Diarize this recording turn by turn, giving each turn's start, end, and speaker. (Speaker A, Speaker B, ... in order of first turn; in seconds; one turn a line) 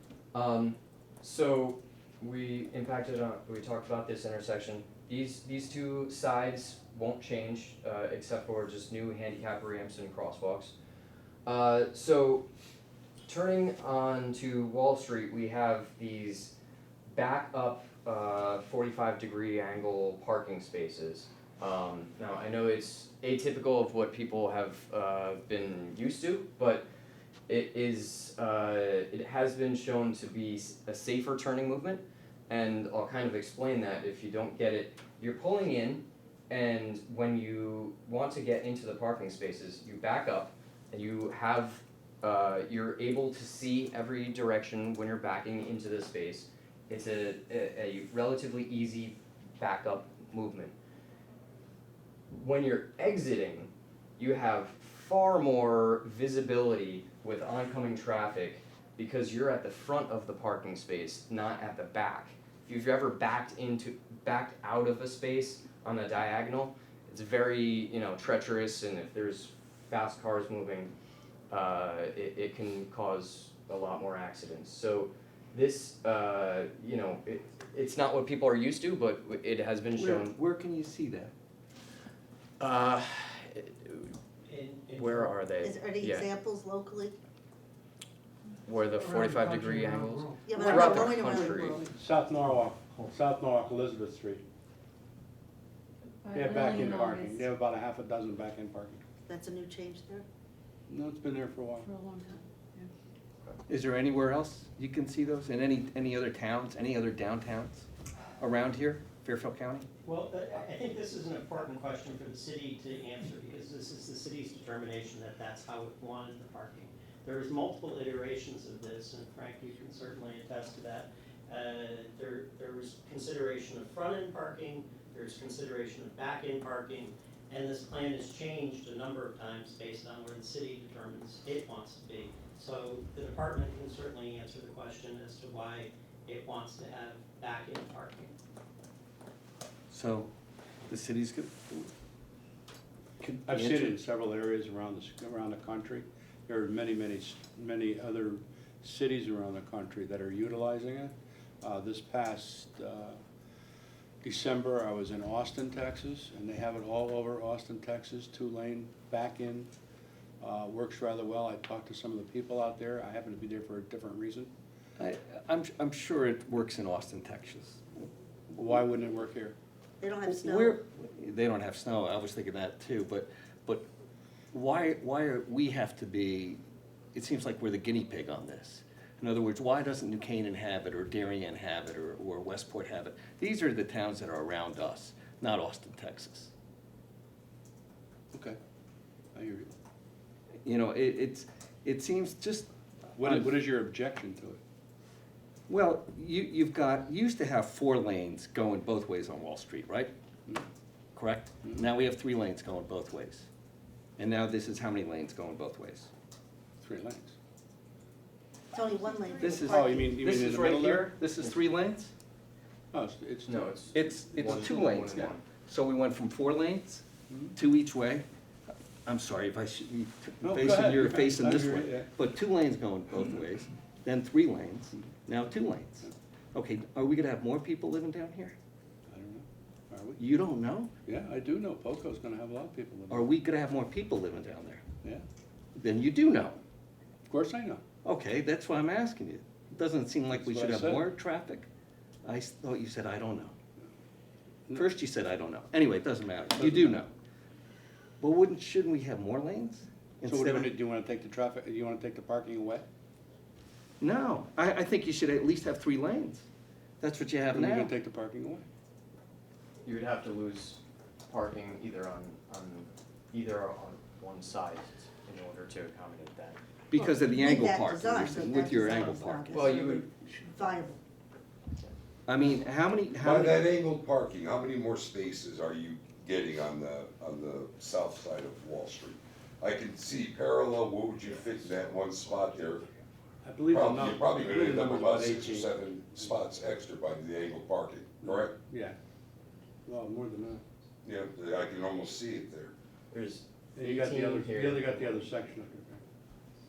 Speaker A: 0.3-10.7
Speaker A: 11.4-12.5
Speaker A: 13.3-16.6
Speaker A: 17.1-26.8
Speaker A: 27.5-50.7
Speaker A: 52.3-70.9
Speaker A: 71.5-80.4
Speaker B: 79.9-81.3
Speaker A: 82.6-84.2
Speaker C: 84.4-85.3
Speaker A: 84.9-86.3
Speaker D: 85.6-87.1
Speaker A: 88.7-91.8
Speaker E: 89.2-91.8
Speaker D: 90.5-91.6
Speaker F: 92.0-94.4
Speaker D: 92.2-92.7
Speaker E: 96.2-97.4
Speaker F: 96.4-99.0
Speaker D: 96.6-97.2
Speaker D: 99.2-100.2
Speaker F: 100.9-101.8
Speaker E: 101.8-102.9
Speaker B: 103.7-107.9
Speaker B: 108.4-109.8
Speaker C: 110.0-138.3
Speaker B: 139.9-140.3
Speaker B: 140.9-141.9
Speaker B: 143.2-144.0
Speaker F: 143.5-153.2
Speaker F: 154.3-159.6
Speaker D: 154.4-155.1
Speaker D: 156.0-156.5
Speaker D: 158.1-159.6
Speaker F: 160.4-164.5
Speaker B: 165.0-168.1
Speaker F: 168.5-169.5
Speaker D: 170.0-170.8
Speaker B: 170.2-173.8
Speaker B: 174.5-176.6
Speaker B: 177.1-186.5
Speaker F: 189.3-189.7
Speaker B: 190.6-193.6
Speaker F: 193.2-194.6
Speaker B: 195.7-200.1
Speaker B: 201.1-203.5
Speaker B: 204.2-206.1
Speaker F: 206.8-207.3
Speaker D: 208.7-210.7
Speaker B: 209.4-212.1
Speaker F: 209.6-211.1
Speaker F: 212.9-213.8
Speaker A: 213.5-215.4
Speaker B: 213.9-217.0
Speaker F: 217.3-217.6
Speaker B: 217.5-218.2
Speaker B: 219.0-228.5
Speaker F: 220.4-222.1
Speaker F: 229.1-230.1
Speaker B: 230.2-230.9
Speaker F: 231.1-233.2
Speaker B: 233.1-234.8
Speaker B: 235.7-236.6
Speaker F: 237.3-237.8
Speaker B: 238.0-241.7
Speaker F: 240.3-241.1
Speaker B: 242.2-243.5
Speaker B: 244.7-247.1
Speaker F: 246.6-247.0
Speaker B: 248.2-250.8
Speaker F: 250.2-252.8
Speaker B: 254.0-256.4
Speaker B: 257.0-257.9
Speaker F: 257.5-258.6
Speaker A: 259.8-266.6
Speaker B: 266.9-269.8
Speaker D: 267.4-271.0
Speaker A: 269.5-270.1
Speaker B: 272.3-273.7
Speaker G: 273.2-282.8
Speaker F: 283.4-286.4
Speaker G: 283.7-288.5
Speaker D: 283.7-285.6
Speaker F: 288.2-288.9
Speaker F: 289.9-290.6
Speaker G: 291.0-292.7
Speaker A: 293.1-295.3
Speaker F: 293.8-296.0
Speaker D: 294.0-295.2